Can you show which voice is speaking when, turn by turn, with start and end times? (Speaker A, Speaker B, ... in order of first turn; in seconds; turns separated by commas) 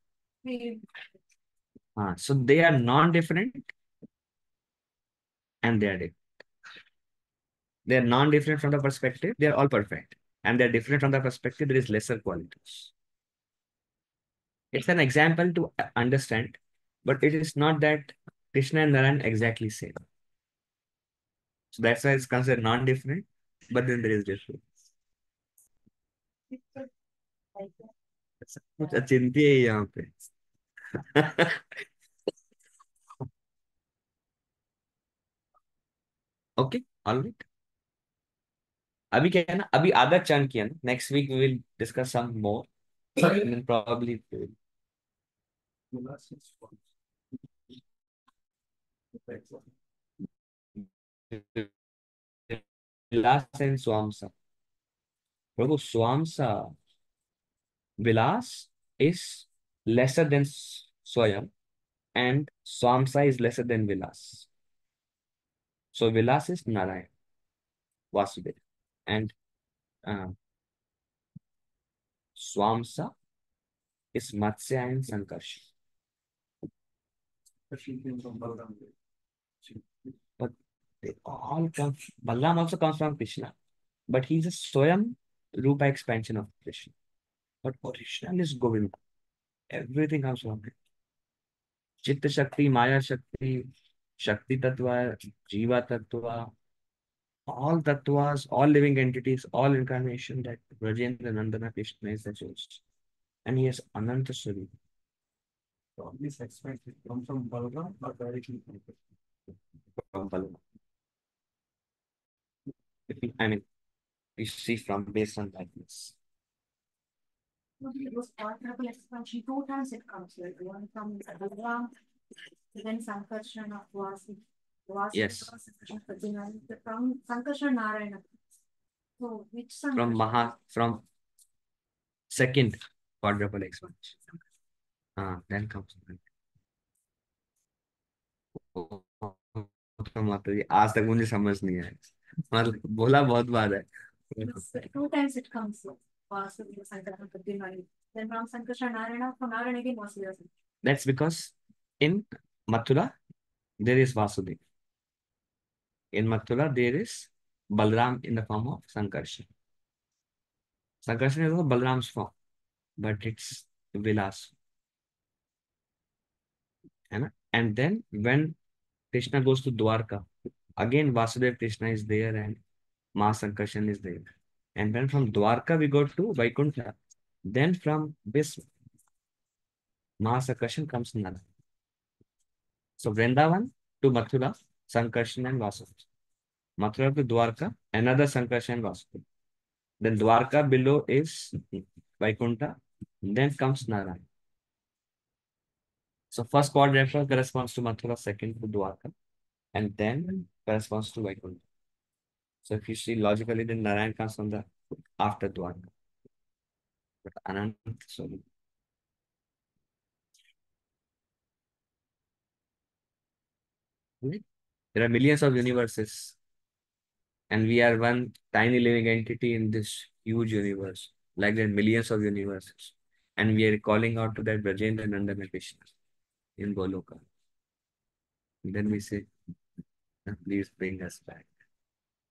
Speaker A: 0.4-0.8, Speaker B: 2.0-3.7, Speaker B: 5.6-6.2, Speaker B: 7.9-12.9, Speaker B: 14.7-20.0, Speaker B: 21.7-24.6, Speaker A: 26.5-26.9, Speaker A: 27.6-27.9, Speaker B: 28.5-30.1, Speaker B: 30.9-31.8, Speaker B: 36.6-37.4, Speaker B: 39.1-44.6, Speaker C: 45.9-46.8, Speaker C: 49.2-49.6, Speaker B: 51.3-51.7, Speaker B: 52.5-54.3, Speaker B: 55.6-56.7, Speaker B: 58.0-61.5, Speaker B: 62.1-64.5, Speaker B: 65.9-67.1, Speaker B: 68.1-69.3, Speaker B: 70.1-70.3, Speaker B: 72.4-73.1, Speaker B: 74.1-75.7, Speaker C: 77.7-78.9, Speaker B: 80.4-83.5, Speaker B: 84.1-86.9, Speaker B: 87.6-89.0, Speaker B: 89.7-90.7, Speaker B: 92.0-96.5, Speaker B: 97.5-102.8, Speaker B: 103.5-104.7, Speaker C: 106.0-109.0, Speaker B: 110.0-110.6, Speaker B: 113.1-113.6, Speaker B: 114.4-116.2, Speaker A: 117.8-121.9, Speaker A: 122.7-128.3, Speaker B: 125.1-125.5, Speaker A: 129.2-130.6, Speaker B: 129.9-131.0, Speaker B: 132.3-134.2, Speaker B: 135.2-136.3, Speaker B: 138.6-144.5, Speaker A: 144.4-150.5, Speaker B: 150.8-153.1, Speaker B: 153.8-154.6, Speaker B: 156.1-159.5, Speaker B: 161.0-162.3, Speaker B: 163.0-164.5, Speaker B: 167.1-168.6, Speaker B: 169.1-170.3, Speaker B: 170.8-172.6, Speaker B: 173.2-178.7, Speaker B: 180.2-181.5, Speaker B: 183.0-186.0, Speaker B: 186.8-189.2, Speaker B: 190.0-194.3, Speaker B: 196.3-199.1, Speaker B: 199.7-201.6, Speaker B: 202.7-204.7, Speaker B: 205.2-205.9, Speaker B: 207.2-208.4, Speaker B: 214.9-216.4, Speaker B: 217.5-225.9, Speaker B: 226.6-227.2, Speaker B: 228.6-229.3, Speaker B: 230.3-231.5